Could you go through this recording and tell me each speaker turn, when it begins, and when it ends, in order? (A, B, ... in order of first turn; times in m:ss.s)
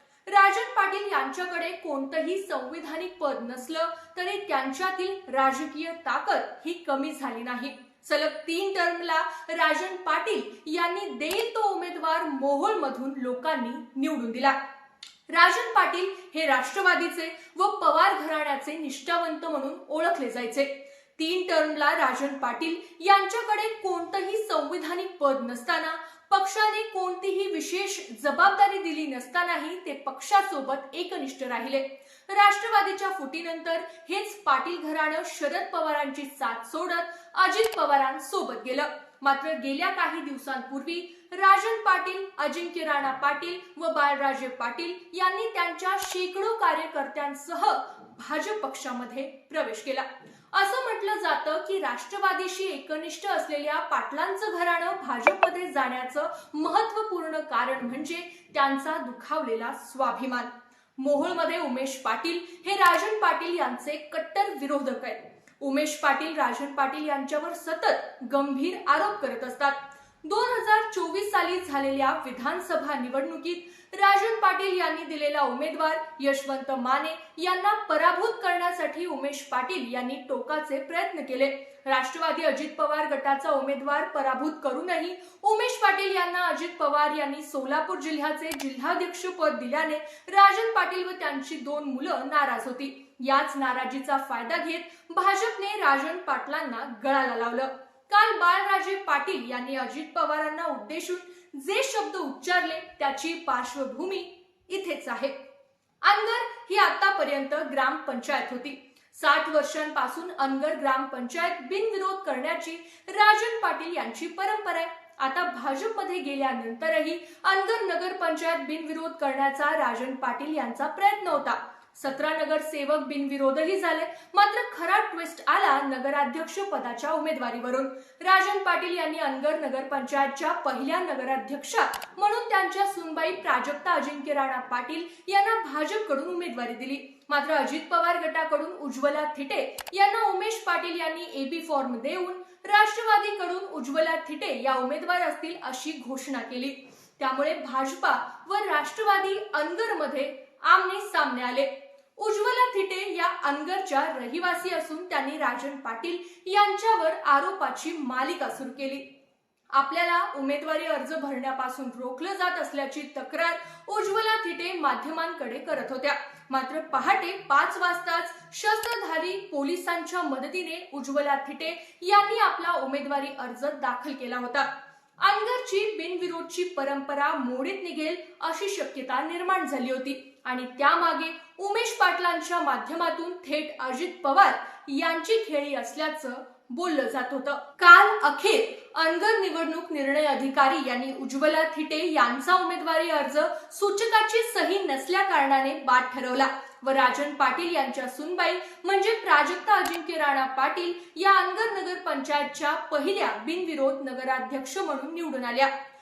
0:00.3-0:14.6 A
0:15.3-1:45.4 A
1:46.0-2:39.0 A
2:39.7-2:54.7 A
2:55.2-3:25.7 A